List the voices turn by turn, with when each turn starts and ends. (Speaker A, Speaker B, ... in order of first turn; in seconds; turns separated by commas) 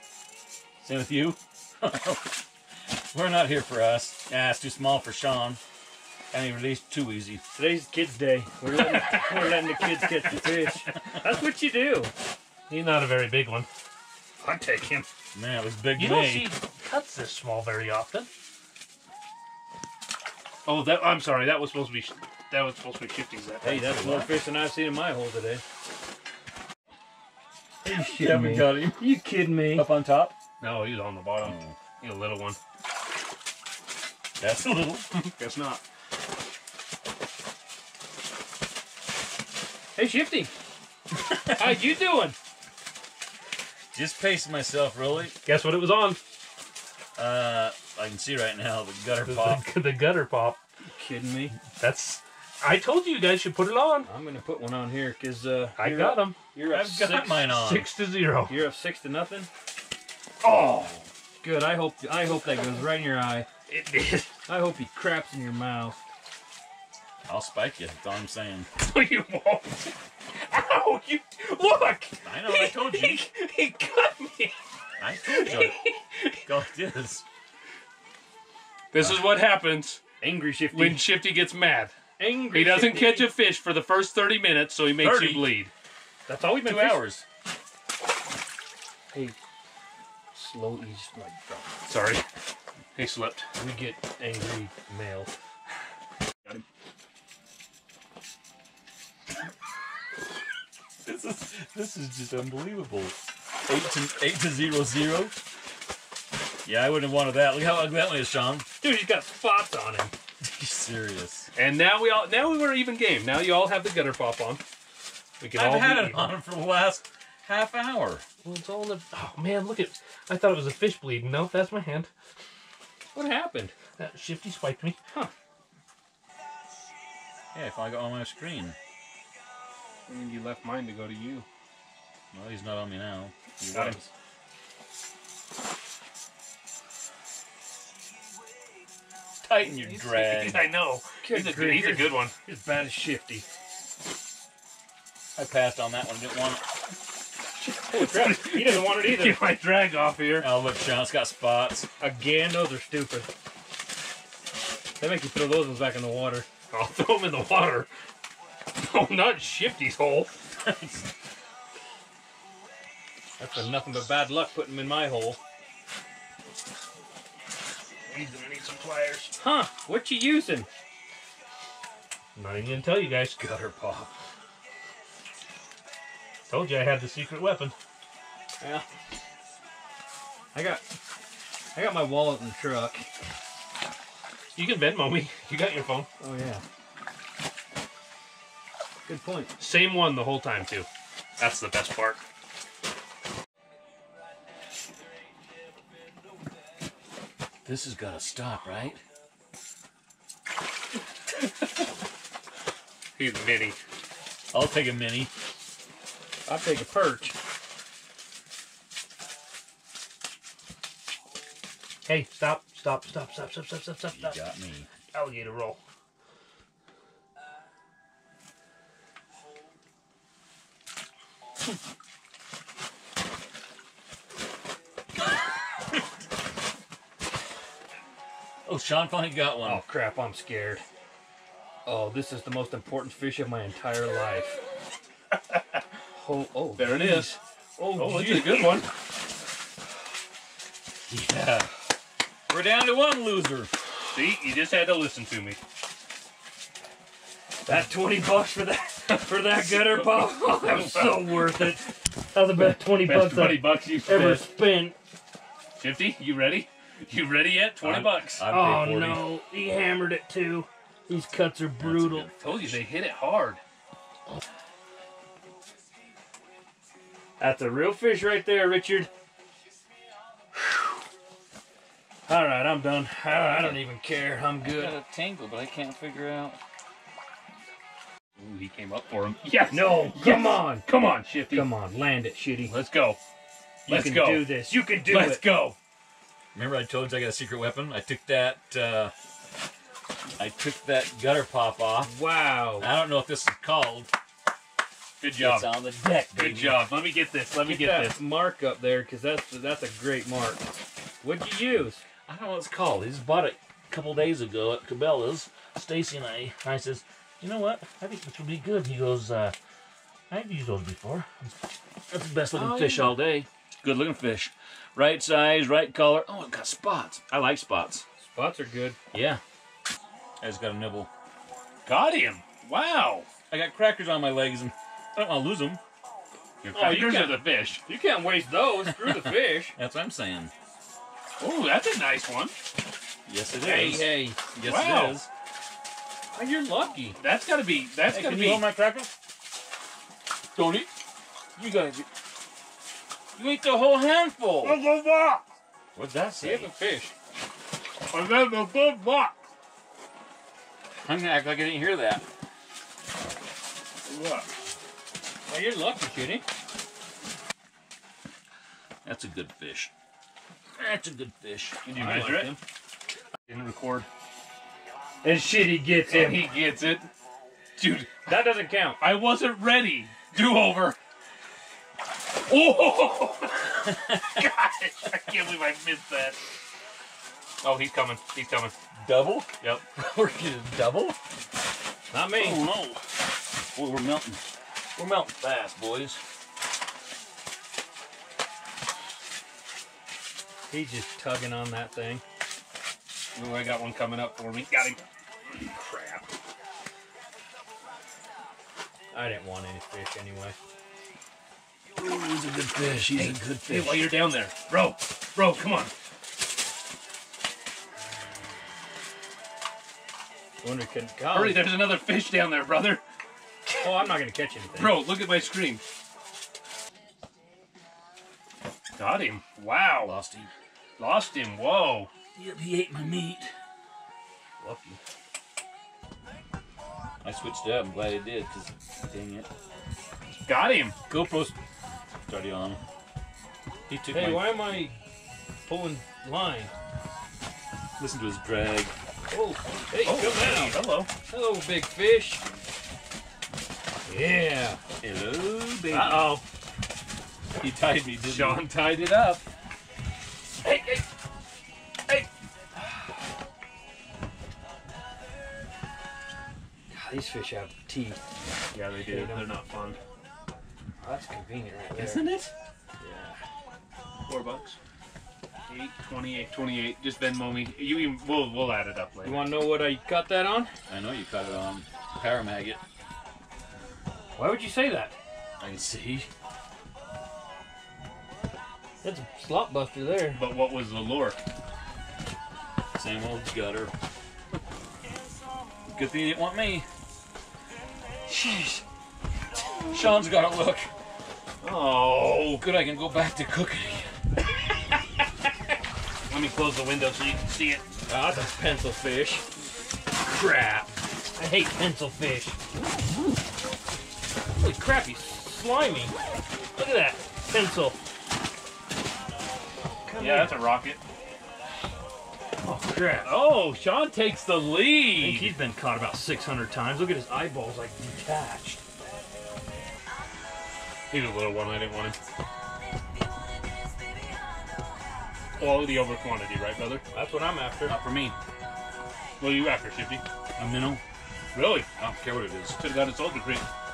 Speaker A: 0.8-2.4, Speaker A: 3.0-5.6, Speaker A: 6.3-7.4, Speaker B: 7.5-12.1, Speaker C: 8.7-10.5, Speaker C: 12.7-13.7, Speaker B: 14.4-15.1, Speaker A: 15.3-16.5, Speaker C: 16.0-18.3, Speaker C: 20.7-24.0, Speaker B: 23.6-25.6, Speaker A: 23.8-24.3, Speaker B: 27.8-29.9, Speaker A: 27.9-30.4, Speaker C: 30.6-32.6, Speaker A: 31.4-31.8, Speaker A: 34.4-35.1, Speaker C: 35.1-35.8, Speaker B: 40.0-40.5, Speaker A: 41.3-41.8, Speaker B: 41.5-42.4, Speaker A: 43.9-45.4, Speaker C: 45.4-46.2, Speaker A: 47.2-49.6, Speaker C: 49.2-50.6, Speaker B: 50.9-51.5, Speaker C: 51.8-54.1, Speaker B: 54.1-57.5, Speaker C: 55.8-56.4, Speaker A: 56.7-57.9, Speaker C: 57.5-58.6, Speaker B: 58.5-59.5, Speaker C: 60.4-61.0, Speaker B: 61.4-63.5, Speaker C: 63.7-64.3, Speaker B: 64.5-66.0, Speaker A: 67.3-68.7, Speaker C: 68.8-74.5, Speaker A: 72.2-73.2, Speaker A: 75.0-75.8, Speaker C: 75.3-76.2, Speaker A: 76.4-77.2, Speaker C: 78.9-80.0, Speaker B: 80.2-81.0, Speaker C: 80.7-85.7, Speaker B: 82.2-83.3, Speaker A: 85.0-85.5, Speaker B: 86.3-87.0, Speaker A: 86.6-87.2, Speaker B: 90.3-91.7, Speaker C: 91.8-92.2, Speaker C: 93.0-93.5, Speaker B: 93.6-95.3, Speaker A: 101.0-105.4, Speaker A: 106.7-108.7, Speaker B: 108.8-110.1, Speaker A: 110.4-111.5, Speaker C: 111.5-114.6, Speaker C: 115.4-116.3, Speaker A: 115.5-118.2, Speaker C: 118.4-122.1, Speaker B: 123.1-123.7, Speaker C: 124.0-125.0, Speaker A: 127.5-128.8, Speaker C: 130.1-131.5, Speaker A: 132.3-134.1, Speaker C: 133.7-134.0, Speaker A: 139.4-140.7, Speaker C: 139.8-142.3, Speaker B: 141.2-143.5, Speaker A: 145.4-146.6, Speaker C: 147.6-150.5, Speaker B: 147.9-149.5, Speaker A: 150.4-151.9, Speaker B: 152.0-153.3, Speaker B: 155.0-156.5, Speaker C: 156.7-157.9, Speaker C: 158.8-160.4, Speaker A: 160.6-161.1, Speaker B: 163.4-165.4, Speaker C: 168.1-169.3, Speaker B: 169.4-170.7, Speaker C: 172.3-173.4, Speaker B: 173.4-174.1, Speaker C: 176.5-177.8, Speaker B: 178.6-178.9, Speaker B: 180.5-180.8, Speaker B: 181.7-183.1, Speaker C: 184.6-186.1, Speaker B: 186.2-186.6, Speaker B: 189.1-189.6, Speaker C: 189.6-192.2, Speaker A: 197.7-199.0, Speaker C: 203.2-203.8, Speaker A: 204.5-205.3, Speaker B: 206.5-207.3, Speaker B: 212.1-214.2, Speaker A: 214.1-214.9, Speaker B: 215.2-215.8, Speaker A: 228.7-229.8, Speaker B: 229.6-230.8, Speaker B: 231.8-234.6, Speaker B: 236.2-238.9, Speaker C: 236.8-237.4, Speaker C: 237.9-238.9, Speaker A: 241.1-241.7, Speaker A: 242.5-243.7, Speaker C: 244.1-245.6, Speaker B: 247.7-255.0, Speaker C: 249.1-250.2, Speaker C: 251.0-251.4, Speaker C: 253.0-254.5, Speaker C: 255.8-258.5, Speaker A: 257.8-259.3, Speaker B: 258.4-262.3, Speaker A: 261.8-262.8, Speaker C: 262.4-263.6, Speaker B: 267.4-269.1, Speaker B: 272.3-275.0, Speaker A: 273.3-273.8, Speaker A: 274.6-276.6, Speaker C: 278.4-281.7, Speaker B: 279.7-280.9, Speaker B: 281.5-282.7, Speaker C: 282.6-283.2, Speaker C: 283.9-285.8, Speaker B: 283.9-285.4, Speaker A: 286.5-289.1, Speaker A: 290.4-292.1, Speaker B: 292.0-292.9, Speaker A: 292.8-294.1, Speaker C: 295.2-295.7, Speaker A: 295.4-296.9, Speaker C: 296.3-298.2, Speaker B: 297.6-300.7, Speaker B: 301.2-302.0, Speaker A: 302.3-309.6, Speaker A: 310.3-311.6, Speaker A: 312.1-318.1, Speaker C: 312.5-313.2, Speaker B: 318.2-319.0, Speaker A: 319.1-319.4, Speaker A: 320.4-321.1, Speaker C: 321.9-323.3, Speaker A: 323.5-325.8, Speaker C: 326.6-327.8, Speaker B: 326.7-329.8, Speaker A: 328.9-330.5, Speaker C: 331.4-332.6, Speaker A: 333.3-335.3, Speaker B: 333.6-334.4, Speaker C: 334.6-335.2, Speaker B: 336.3-337.2, Speaker C: 337.2-338.7, Speaker A: 338.1-339.1, Speaker A: 340.6-340.9, Speaker A: 341.6-342.1, Speaker A: 343.4-344.8, Speaker C: 344.6-345.4, Speaker A: 345.9-346.7, Speaker B: 346.4-347.1, Speaker C: 348.1-349.4, Speaker A: 351.0-352.2, Speaker C: 354.1-354.5, Speaker B: 355.5-356.4, Speaker A: 359.1-359.9, Speaker A: 360.8-361.8, Speaker C: 361.9-362.6, Speaker B: 361.9-362.6, Speaker C: 363.5-364.1, Speaker B: 365.2-366.5, Speaker C: 366.1-367.1, Speaker C: 367.8-368.3, Speaker B: 368.2-369.0, Speaker C: 369.0-371.0, Speaker C: 372.5-376.4, Speaker A: 373.9-374.4, Speaker C: 377.6-378.7, Speaker A: 379.0-381.2, Speaker B: 382.1-382.7, Speaker A: 382.4-383.0, Speaker A: 383.7-384.4, Speaker A: 385.0-386.2, Speaker B: 390.7-392.2, Speaker C: 393.4-396.2, Speaker B: 399.1-400.6, Speaker A: 402.0-404.2, Speaker C: 403.6-405.9, Speaker B: 410.6-411.8, Speaker C: 411.3-413.0, Speaker B: 413.7-415.1, Speaker C: 414.8-415.8, Speaker C: 419.0-420.1, Speaker A: 420.0-420.5, Speaker C: 421.0-422.1, Speaker A: 422.4-423.5, Speaker B: 424.6-425.0, Speaker A: 427.2-429.5, Speaker C: 430.4-431.0, Speaker A: 431.1-431.6, Speaker A: 432.3-432.8, Speaker A: 433.9-434.9, Speaker B: 434.1-435.0, Speaker B: 435.7-436.7, Speaker A: 438.0-438.9, Speaker B: 439.3-442.4, Speaker C: 440.0-441.1, Speaker B: 444.1-444.8, Speaker A: 445.0-446.3, Speaker C: 445.9-446.4, Speaker A: 447.6-448.6, Speaker C: 448.2-449.4, Speaker B: 450.6-451.0, Speaker B: 456.9-458.2, Speaker C: 458.7-460.0, Speaker B: 459.1-459.6, Speaker B: 461.0-462.3, Speaker A: 461.9-462.5, Speaker B: 463.0-463.4, Speaker C: 464.3-464.8, Speaker C: 465.7-469.5, Speaker B: 469.2-470.7, Speaker A: 470.9-472.8, Speaker B: 474.4-475.2, Speaker A: 475.6-476.3, Speaker B: 479.0-480.4, Speaker C: 480.3-481.4, Speaker A: 482.9-483.9, Speaker A: 485.9-486.9, Speaker B: 488.3-488.8, Speaker A: 489.9-490.9, Speaker C: 491.6-492.6, Speaker A: 492.6-494.1, Speaker C: 496.3-497.9, Speaker B: 498.1-499.4, Speaker B: 500.2-502.6, Speaker B: 504.6-506.1, Speaker B: 506.8-508.0, Speaker B: 510.1-510.7, Speaker C: 510.2-511.0, Speaker B: 512.6-513.4, Speaker C: 513.2-515.6, Speaker B: 515.2-518.8, Speaker C: 521.1-522.2, Speaker C: 525.6-527.0, Speaker B: 527.1-528.0, Speaker A: 527.8-528.4, Speaker C: 529.4-530.2, Speaker A: 530.6-531.0, Speaker C: 531.5-531.9, Speaker A: 532.0-532.8, Speaker C: 532.8-533.7